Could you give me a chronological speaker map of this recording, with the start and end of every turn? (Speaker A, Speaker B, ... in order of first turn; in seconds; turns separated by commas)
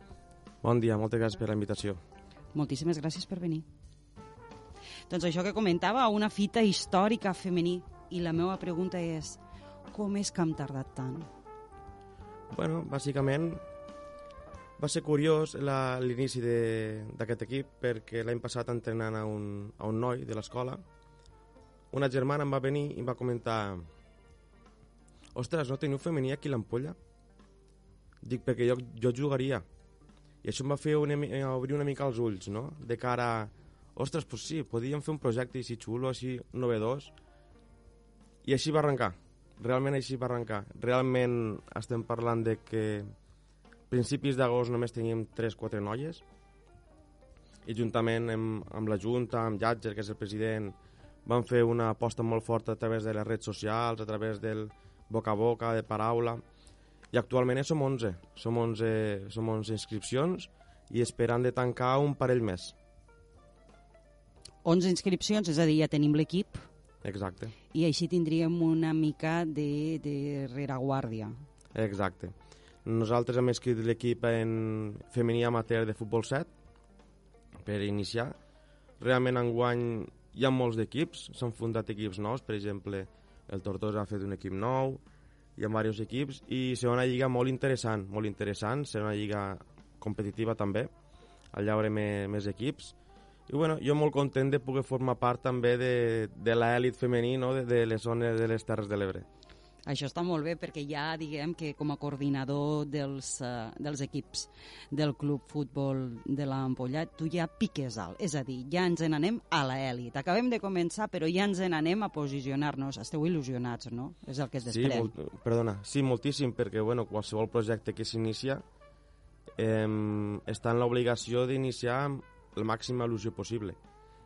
Speaker A: 0.6-2.0, Speaker B: 2.5-3.6, Speaker B: 5.1-9.4, Speaker B: 9.9-11.3, Speaker A: 12.5-13.6, Speaker A: 14.8-20.8, Speaker A: 21.9-23.9, Speaker A: 25.4-27.0, Speaker A: 28.2-29.6, Speaker A: 30.4-37.1, Speaker A: 38.4-43.1, Speaker A: 43.9-46.2, Speaker A: 47.6-56.4, Speaker A: 57.1-62.8, Speaker B: 64.6-66.6, Speaker A: 67.0-67.5, Speaker B: 67.7-71.4, Speaker A: 71.8-72.3, Speaker A: 72.8-76.5, Speaker A: 77.6-78.3, Speaker A: 79.0-85.0, Speaker A: 85.6-90.9, Speaker A: 91.5-93.0, Speaker A: 93.5-99.3, Speaker B: 99.9-115.1, Speaker A: 114.7-118.6, Speaker A: 119.6-123.8